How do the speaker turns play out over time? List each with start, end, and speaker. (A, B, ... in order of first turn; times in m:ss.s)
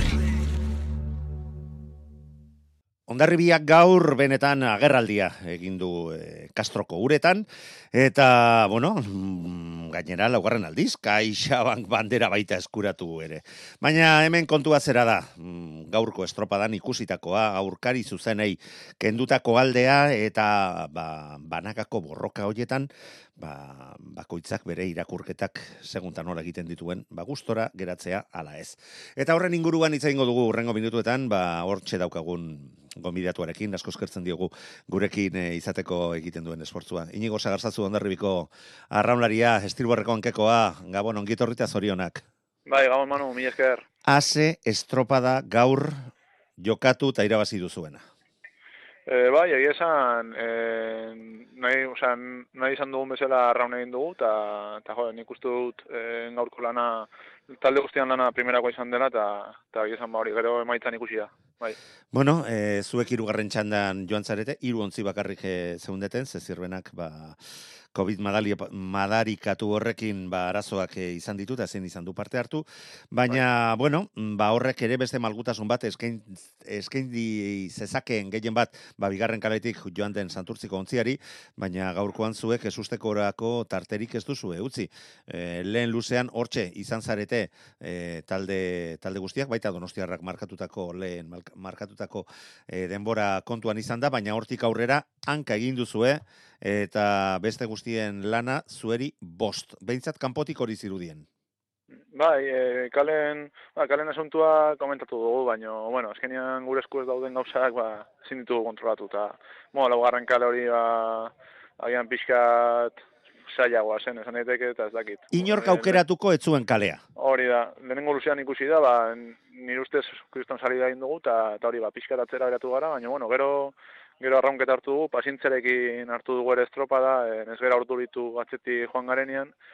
0:03.1-0:42.2 A
0:42.7-0:43.8 B
0:44.1-0:48.0 A
0:49.1-1:01.8 B
1:02.1-1:07.4 A
1:07.9-1:41.3 A
1:42.1-1:56.0 B
1:55.3-1:57.0 A
1:57.2-2:09.5 B